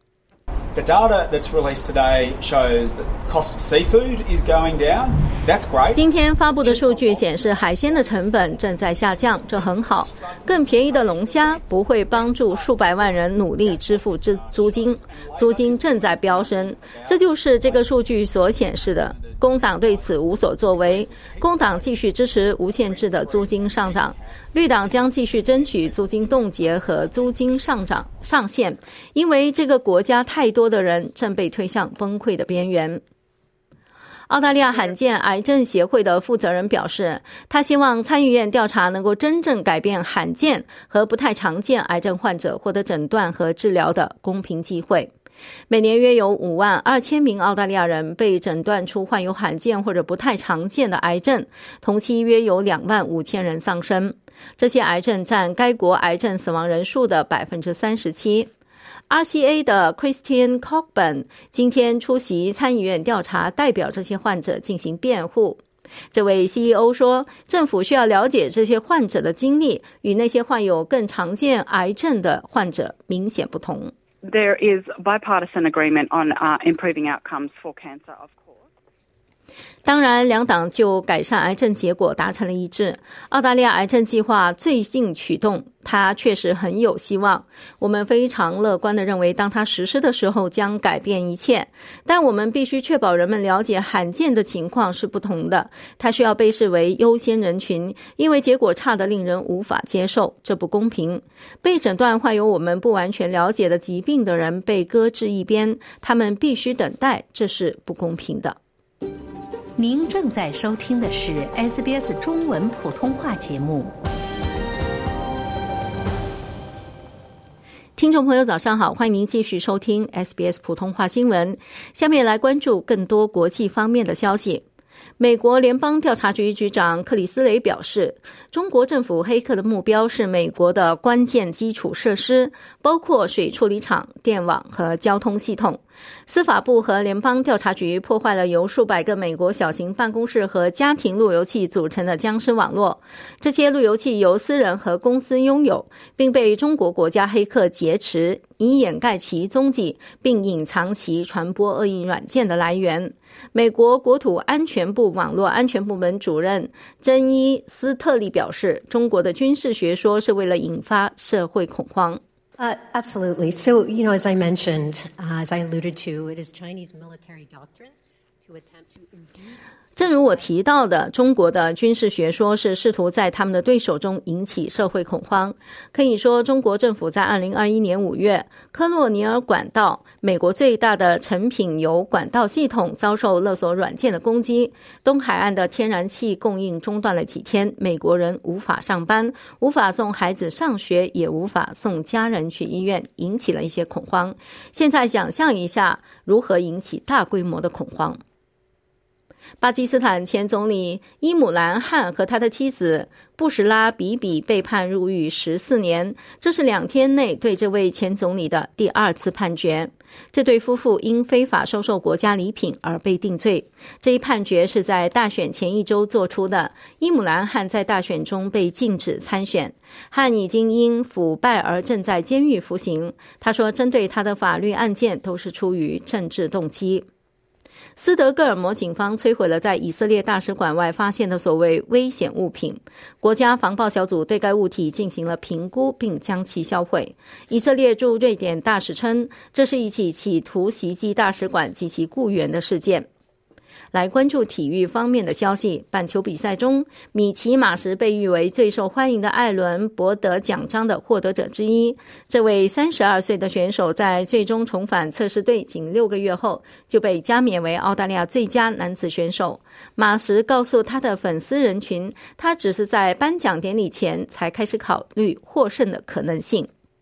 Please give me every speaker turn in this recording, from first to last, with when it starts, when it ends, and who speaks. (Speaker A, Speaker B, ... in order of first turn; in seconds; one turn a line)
Speaker A: 0.7-6.0
Speaker B: 5.9-33.0
Speaker A: 6.6-18.0
Speaker A: 18.6-27.6
Speaker B: 34.3-45.1
Speaker B: 45.7-58.5
Speaker B: 59.1-65.6
Speaker B: 66.1-73.9
Speaker C: 74.3-78.3
Speaker B: 79.8-108.6
Speaker D: 109.8-113.9
Speaker B: 118.0-124.6
Speaker B: 125.2-162.2
Speaker E: 162.6-167.9
Speaker E: 168.4-170.5
Speaker B: 170.0-198.2
Speaker B: 199.6-227.1
Speaker B: 228.0-243.1
Speaker B: 243.9-266.7